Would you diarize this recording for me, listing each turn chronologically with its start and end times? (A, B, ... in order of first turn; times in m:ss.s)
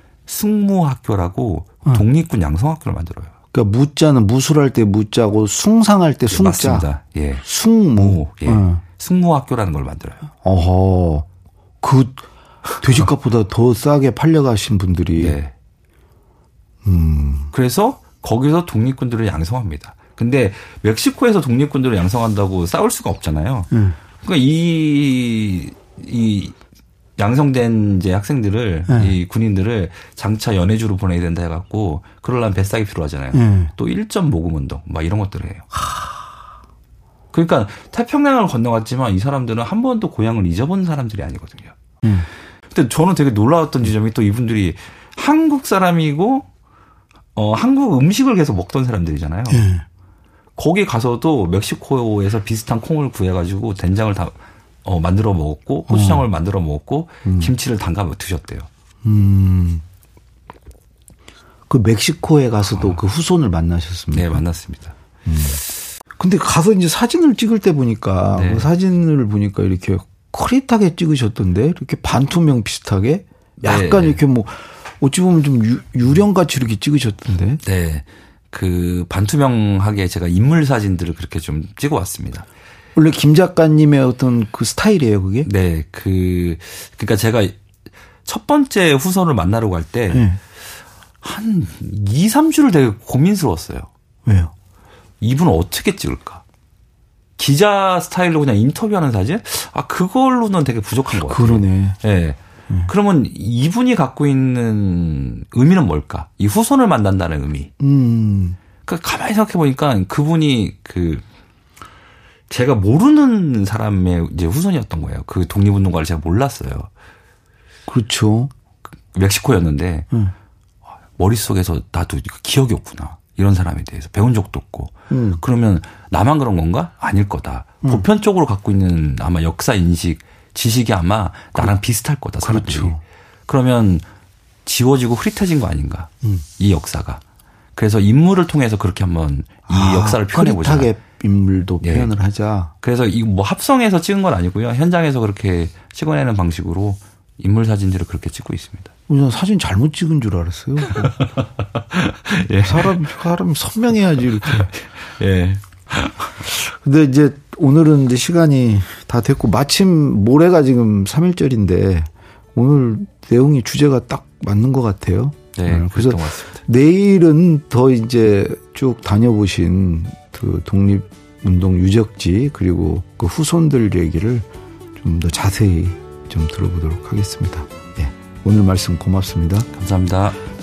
0:00.3-0:03.3 A
0:03.5-0:06.9 B
0:06.3-0:07.4 A
0:07.4-0:08.8 B
0:08.0-0:10.3 A
0:10.4-0:11.2 B
0:11.8-0:12.3 B
0:12.8-0:15.4 B
0:15.2-0:15.5 A
0:16.8-0:17.5 B
0:17.5-0:26.6 A
0:23.7-0:24.0 B
0:27.2-0:35.8 A
0:28.9-0:29.1 B
0:33.3-0:33.7 B
0:37.3-0:41.7 A
0:42.7-0:46.5 A
0:47.4-0:49.7 A
0:49.5-0:49.8 B
0:50.6-0:58.7 A
0:55.9-0:56.2 B
0:57.2-0:57.5 B
0:59.0-0:59.8 B
1:01.7-1:04.4 B
1:02.7-1:03.0 A
1:04.1-1:04.9 A
1:05.2-1:17.6 B
1:08.3-1:08.7 A
1:13.6-1:14.2 A
1:17.6-1:22.5 A
1:23.0-1:25.5 B
1:25.4-1:27.6 A
1:28.2-1:30.3 A
1:30.1-1:30.4 B
1:31.2-1:33.9 A
1:34.2-1:34.5 B
1:35.2-1:36.4 A
1:37.4-1:47.7 A
1:41.2-1:42.0 B
1:47.8-1:48.6 B
1:48.8-1:51.2 A
1:52.5-1:56.9 A
1:57.9-1:58.5 B
1:59.1-2:00.1 A
2:01.2-2:14.0 A
2:05.1-2:05.4 B
2:12.4-2:13.0 B
2:14.6-2:17.2 A
2:17.7-2:20.9 A
2:19.7-2:22.7 B
2:21.8-2:22.1 A
2:22.8-2:28.9 A
2:29.1-2:31.2 B
2:30.8-2:33.1 A
2:32.6-2:34.7 B
2:34.4-2:36.3 A
2:36.4-2:59.7 B
2:45.6-2:46.6 A
2:59.7-3:00.4 A